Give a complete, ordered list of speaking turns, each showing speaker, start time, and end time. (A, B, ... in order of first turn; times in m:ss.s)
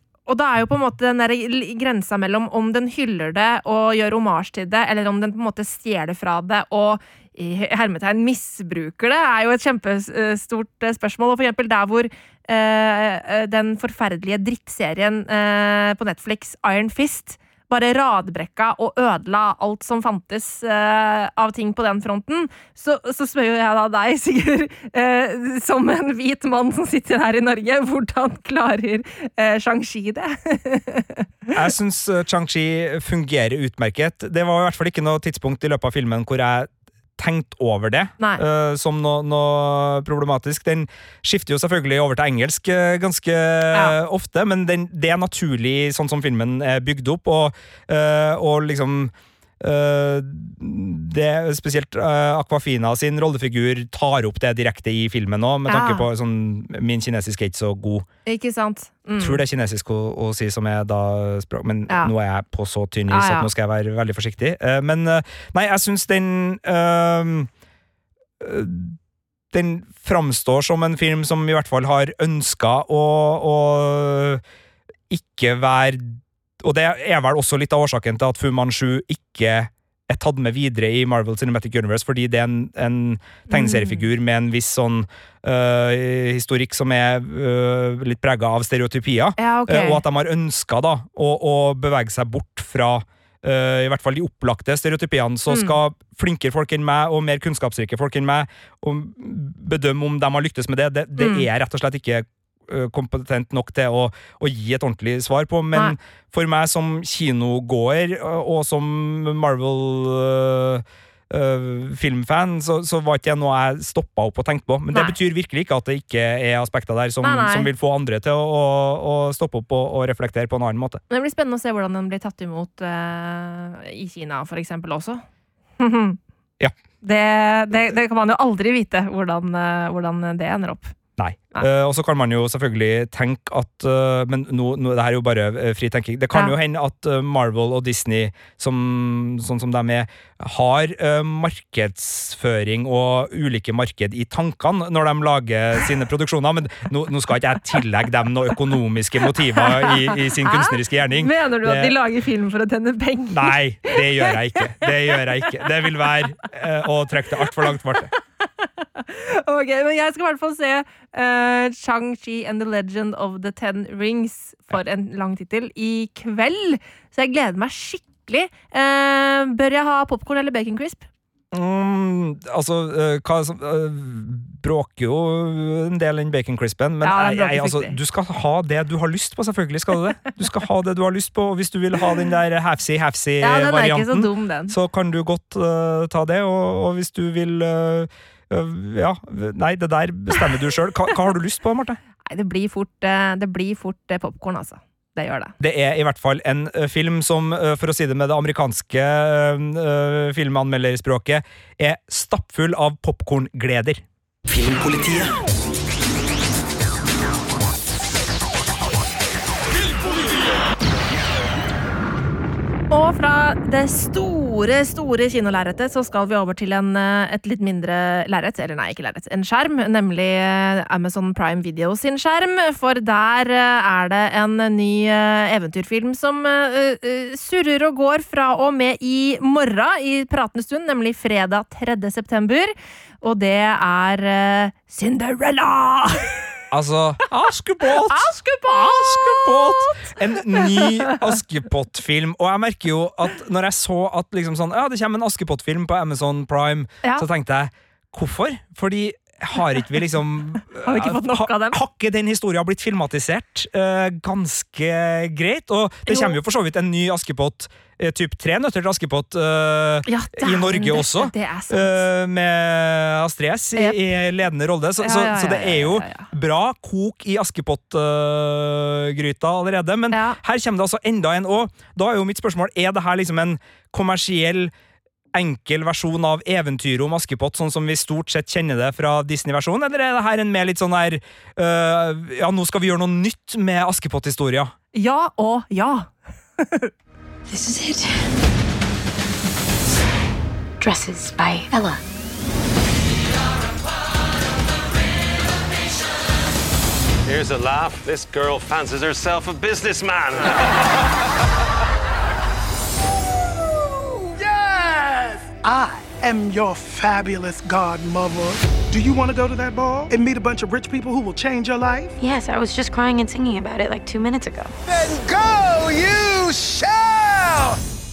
0:00.3-0:31.3 A
0:31.5-0:58.0 B
0:55.7-0:56.0 A
0:58.2-0:59.4 A
0:59.2-1:07.5 B
1:03.1-1:03.5 A
1:08.4-1:09.0 B
1:09.5-1:14.4 B
1:15.1-2:01.0 B
1:23.5-1:24.0 A
1:29.4-1:30.0 A
1:35.5-1:35.8 A
1:41.2-1:41.5 A
1:57.2-1:57.7 A
2:01.1-2:05.2 A
2:05.8-2:06.2 A
2:07.0-2:10.9 A
2:11.2-2:31.9 B
2:29.5-2:35.7 A
2:33.3-2:38.1 B
2:38.4-2:51.0 A
2:51.5-3:12.0 B
2:57.0-2:58.0 A
3:03.4-3:04.7 A
3:12.3-3:15.5 A
3:15.6-3:25.2 B
3:32.9-3:56.3 A
3:56.7-4:34.7 B
3:58.1-4:01.2 A
4:10.8-4:11.8 A
4:16.1-4:16.4 A
4:20.1-4:22.0 A
4:25.0-4:26.3 A
4:30.1-4:30.4 A
4:35.3-4:44.7 B
4:44.9-4:46.9 A
4:47.5-4:48.1 C
4:50.8-4:52.0 C
4:57.2-5:00.8 D
5:03.8-5:12.1 E
5:12.2-5:14.7 C
5:14.8-5:17.8 E